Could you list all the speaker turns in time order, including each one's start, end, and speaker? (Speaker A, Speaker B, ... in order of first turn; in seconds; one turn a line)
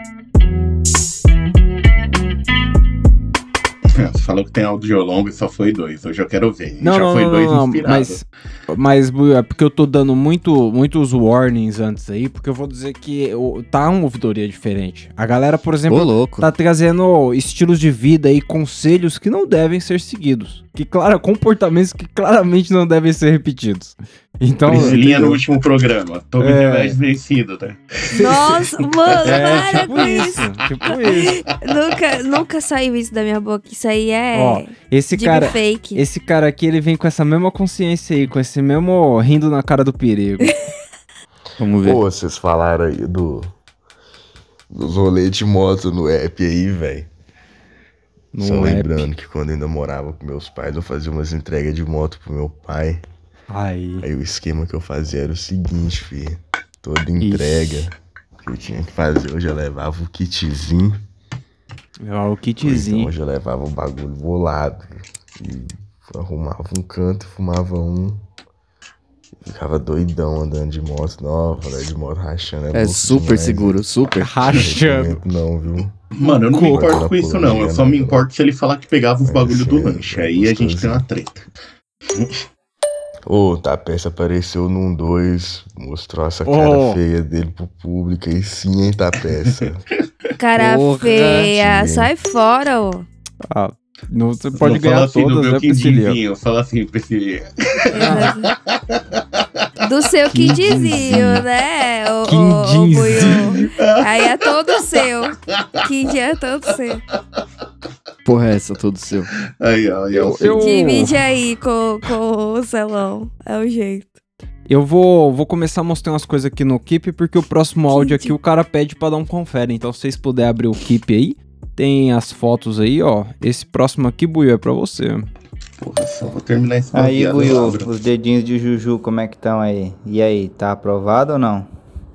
Speaker A: 3.9-8.2
Speaker B: 6.8-25.4
Speaker C: 15.9-16.5
Speaker A: 24.6-29.9
Speaker C: 24.7-25.0
Speaker B: 26.4-27.0
Speaker D: 28.1-30.4
Speaker B: 29.2-31.4
Speaker D: 31.0-36.0
Speaker B: 34.3-40.5
Speaker C: 41.6-42.0
Speaker E: 41.8-43.5
Speaker E: 44.7-47.1
Speaker B: 48.3-49.0
Speaker E: 48.4-53.0
Speaker B: 53.5-54.0
Speaker E: 54.0-61.0
Speaker C: 57.2-57.8
Speaker B: 62.0-63.1
Speaker E: 62.6-68.2
Speaker E: 69.4-73.9
Speaker C: 72.7-74.3
Speaker B: 74.2-75.2
Speaker E: 74.4-75.9
Speaker A: 76.1-81.5
Speaker B: 76.2-77.0
Speaker E: 76.6-78.2
Speaker E: 79.2-81.0
Speaker E: 83.3-89.8
Speaker B: 86.5-87.0
Speaker D: 90.4-93.0
Speaker C: 90.6-91.5
Speaker E: 91.5-92.1
Speaker B: 93.5-96.2
Speaker A: 94.5-99.4
Speaker D: 97.9-98.5
Speaker D: 99.8-107.0
Speaker B: 100.3-101.3
Speaker A: 100.4-100.7
Speaker B: 102.2-103.7
Speaker A: 103.8-105.0
Speaker A: 105.5-105.9
Speaker C: 108.2-109.3
Speaker A: 109.6-110.7
Speaker B: 110.1-111.2
Speaker D: 110.5-114.1
Speaker B: 114.7-125.2
Speaker D: 117.9-118.3
Speaker A: 125.8-127.9
Speaker F: 126.9-131.7